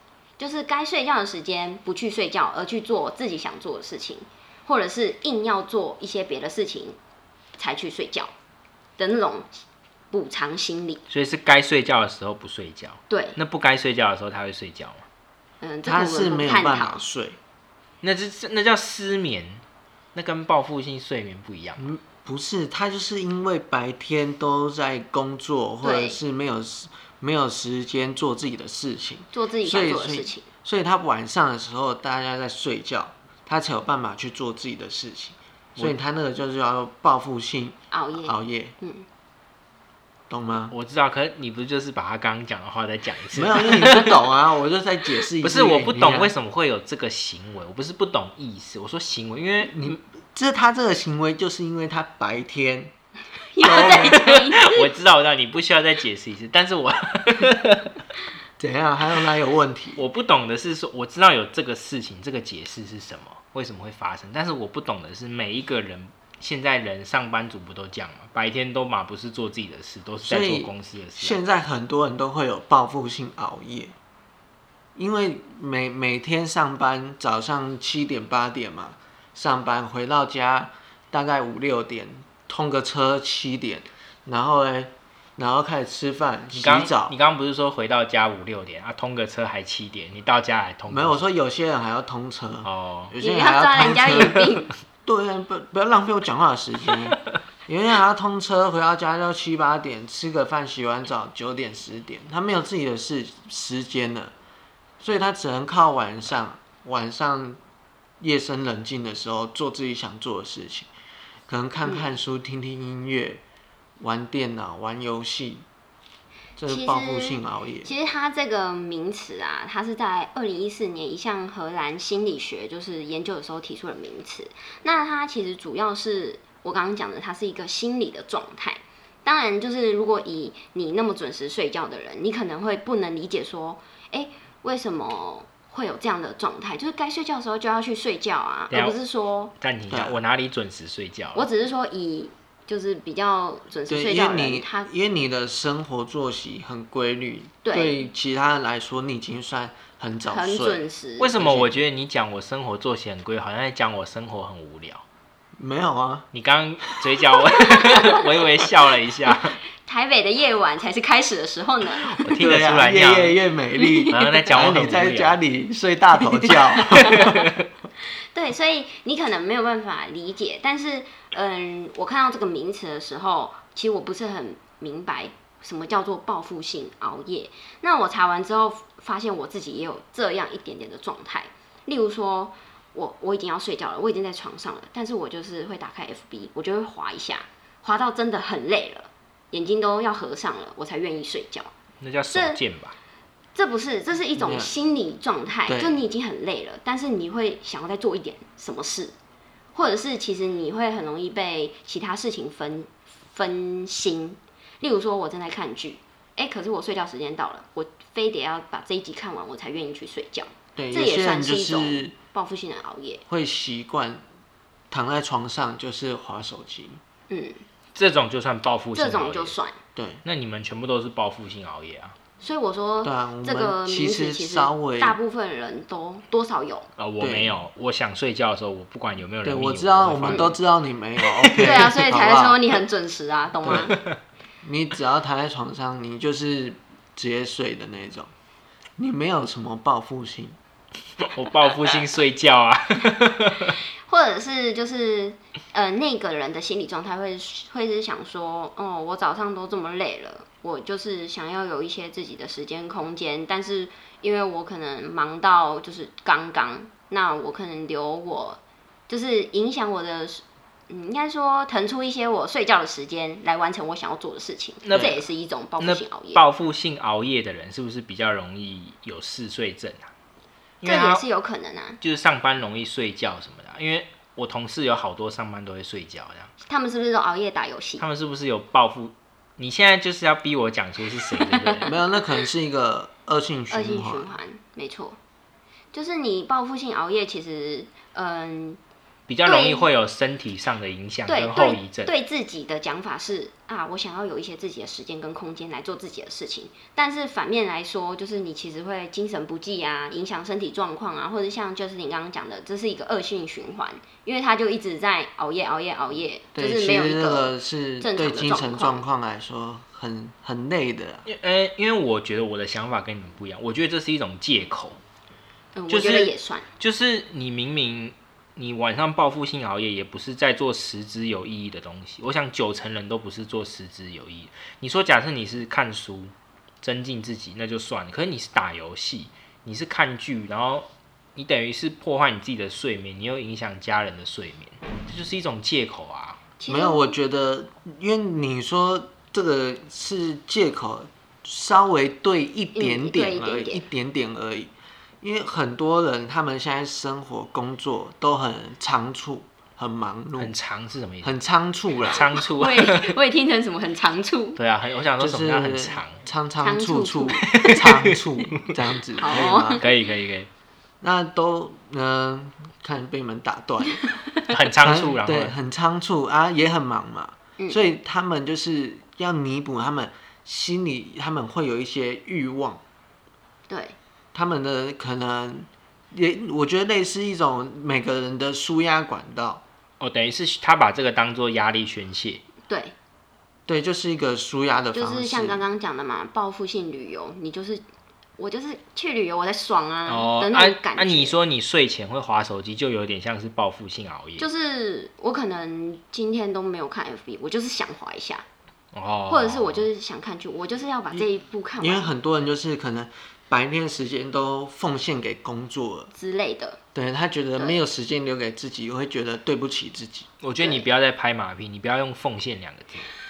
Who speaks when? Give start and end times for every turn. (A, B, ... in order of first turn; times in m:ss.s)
0:00.4-0:07.0 A
0:07.6-0:08.3 A
0:09.0-0:09.6 A
0:10.1-0:11.0 A
0:11.1-0:15.0 B
0:13.1-0:13.4 A
0:15.6-0:17.0 A
0:15.8-0:17.4 C
0:18.0-0:19.6 B
0:20.1-0:21.8 B
0:21.8-0:38.7 C
0:25.8-0:26.2 A
0:29.3-0:30.4 A
0:37.9-0:39.0 A
0:40.3-0:40.7 C
0:40.7-0:44.2 B
0:43.3-0:46.3 C
0:45.4-0:50.0 B
0:49.7-0:52.9 C
0:53.5-0:54.9 A
0:53.6-0:54.2 C
0:53.7-0:57.9 B
0:58.6-1:00.0 C
1:00.0-1:11.4 B
1:10.2-1:13.9 C
1:15.0-1:27.2 C
1:26.5-1:31.2 B
1:30.9-1:34.5 C
1:32.6-1:33.1 B
1:33.2-1:34.7 A
1:35.0-1:44.3 C
1:45.0-1:47.6 C
1:48.2-1:50.9 C
1:51.5-1:53.4 C
1:51.8-1:52.1 A
1:54.0-1:55.6 C
1:56.6-1:57.9 C
1:56.7-2:19.5 A
2:18.7-2:19.0 B
2:19.6-2:21.5 B
2:19.9-2:20.2 C
2:21.3-2:24.9 A
2:23.9-2:30.8 C
2:27.6-2:28.0 A
2:30.2-2:31.4 A
2:31.2-2:35.0 B
2:31.4-2:31.7 C
2:35.6-2:36.3 C
2:36.3-2:39.5 B
2:39.8-2:42.2 A
2:42.0-2:43.4 B
2:42.4-2:47.3 C
2:43.8-2:44.3 A
2:44.1-2:45.4 B
2:46.5-2:47.6 B
2:48.3-3:11.7 A
3:12.0-3:13.0 B
3:12.3-3:12.6 A
3:13.5-3:19.1 A
3:14.4-3:14.7 C
3:15.7-3:16.0 C
3:19.7-3:33.2 A
3:30.8-3:32.1 C
3:33.3-3:34.2 C
3:34.9-3:37.0 C
3:37.3-3:37.6 A
3:37.9-3:39.6 B
3:38.9-3:39.8 A
3:40.0-3:40.2 C
3:40.2-3:42.1 B
3:42.4-3:46.9 A
3:43.0-3:45.2 C
3:47.0-3:50.6 B
3:47.2-3:47.5 C
3:49.4-3:52.6 C
3:51.3-3:51.8 B
3:51.5-3:53.9 A
3:53.6-3:53.9 C
3:53.7-3:54.1 B
3:54.6-3:58.3 C
3:59.0-4:00.6 C
4:01.3-4:03.8 B
4:04.0-4:26.4 A
4:24.8-4:25.2 B
4:25.8-4:30.1 B
4:30.8-4:31.2 B
4:30.8-4:32.0 A
4:32.0-4:36.5 B
4:36.6-4:38.0 A
4:38.0-4:41.9 B
4:41.4-4:41.9 A
4:41.8-4:44.3 C
4:43.7-4:45.2 A
4:45.9-4:48.8 A
4:49.3-4:52.1 B
4:49.4-4:49.9 A
4:51.3-5:09.0 A
5:06.5-5:11.2 C
5:11.2-5:15.0 B
5:15.7-5:16.7 A
5:15.9-5:36.4 B
5:36.6-5:37.1 A
5:36.7-5:44.7 C
5:42.8-5:43.8 A
5:45.2-5:50.5 C
5:50.4-5:51.3 B
5:51.2-5:52.3 C
5:52.0-5:53.2 B
5:52.3-5:54.6 A
5:54.6-5:56.2 B
5:55.2-5:59.8 C
5:56.6-5:57.4 A
5:57.4-6:00.5 B
5:59.2-5:59.8 A
6:01.0-6:04.0 C
6:04.5-6:05.5 B
6:04.8-6:12.8 C
6:07.6-6:07.8 A
6:13.7-6:14.0 A
6:14.3-6:19.6 C
6:20.0-6:22.4 B
6:22.7-6:22.9 A
6:23.7-6:25.6 C
6:24.9-6:27.8 A
6:28.4-6:31.4 A
6:30.1-6:34.5 B
6:34.4-6:38.4 A
6:38.9-6:39.9 B
6:39.3-6:42.1 A
6:41.8-6:46.1 C
6:46.1-6:46.8 A
6:46.9-6:50.3 C
6:50.4-6:53.1 B